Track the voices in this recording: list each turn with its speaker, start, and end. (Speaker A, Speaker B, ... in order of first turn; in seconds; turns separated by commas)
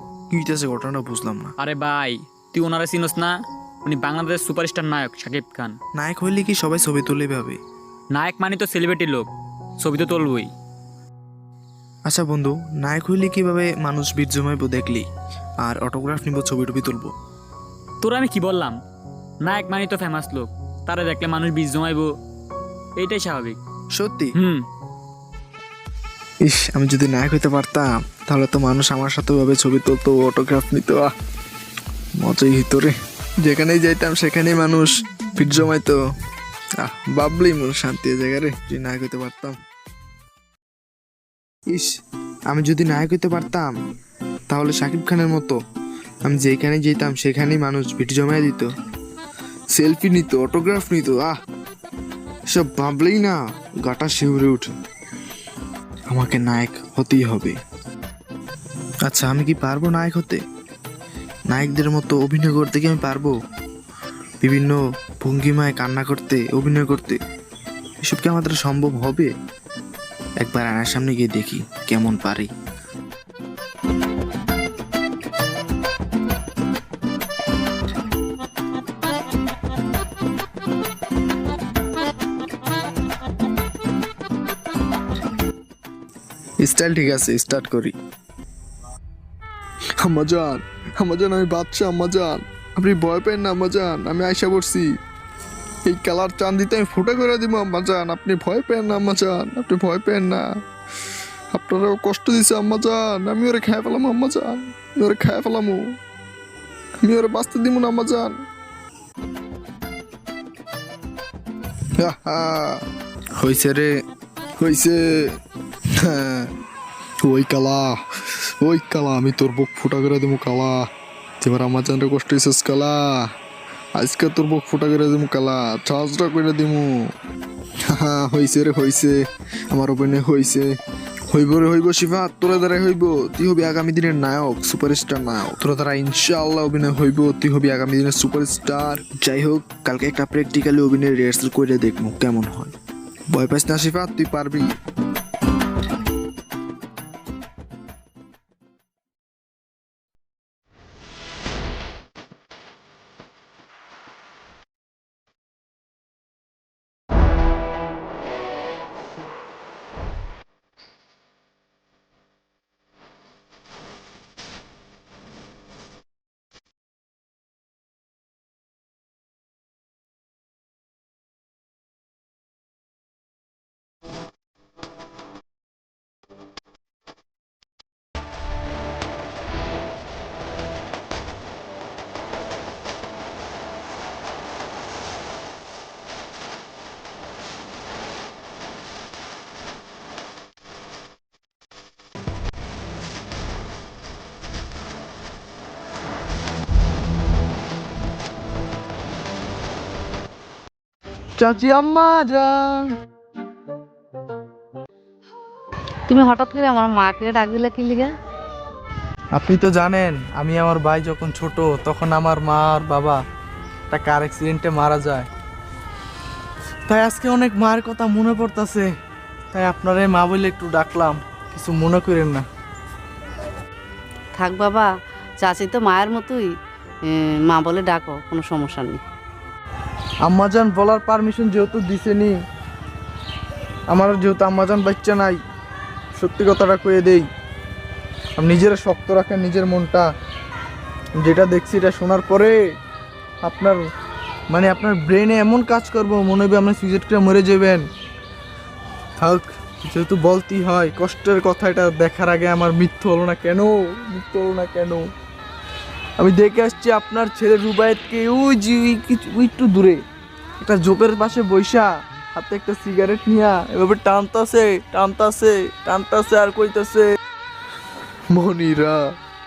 Speaker A: 0.3-1.5, Speaker B: 1.6-3.3, Speaker B: 3.8-5.8, Speaker A: 6.0-7.6, Speaker B: 8.2-9.3, Speaker B: 9.8-10.5, Speaker A: 12.1-15.1, Speaker A: 15.6-17.1, Speaker B: 18.0-18.8, Speaker B: 19.4-22.1, Speaker B: 23.0-23.6, Speaker A: 23.9-24.3, Speaker B: 24.4-24.6, Speaker A: 26.4-31.1, Speaker A: 32.2-36.0, Speaker A: 36.8-39.6, Speaker A: 42.5-43.7, Speaker A: 44.5-45.5, Speaker A: 46.2-48.7, Speaker A: 49.7-51.3, Speaker A: 52.5-54.7, Speaker A: 56.1-57.5, Speaker A: 59.1-60.4, Speaker A: 61.5-63.3, Speaker A: 64.4-67.2, Speaker A: 68.0-69.3, Speaker A: 70.4-72.5, Speaker A: 86.6-87.9, Speaker A: 90.0-94.9, Speaker A: 95.9-100.4, Speaker A: 101.5-105.8, Speaker A: 107.0-108.4, Speaker A: 112.0-112.8, Speaker A: 113.4-113.9, Speaker A: 114.6-115.4, Speaker A: 115.9-116.5, Speaker A: 117.2-118.0, Speaker A: 118.6-120.9, Speaker A: 121.4-123.3, Speaker A: 124.0-127.1, Speaker A: 127.9-130.8, Speaker A: 131.3-142.7, Speaker A: 143.3-144.8, Speaker C: 201.4-202.9, Speaker D: 206.1-208.1, Speaker C: 209.3-213.2, Speaker C: 213.9-215.3, Speaker C: 216.9-218.9, Speaker C: 219.5-222.4, Speaker D: 224.4-224.9, Speaker D: 225.4-226.4, Speaker D: 227.1-229.0, Speaker C: 230.2-232.4, Speaker C: 233.9-235.4, Speaker C: 236.2-237.3, Speaker C: 238.4-240.1, Speaker C: 241.2-242.6, Speaker C: 243.4-243.9, Speaker C: 244.5-247.8, Speaker C: 249.2-255.1, Speaker C: 256.2-260.0, Speaker C: 260.6-267.1, Speaker A: 268.3-269.0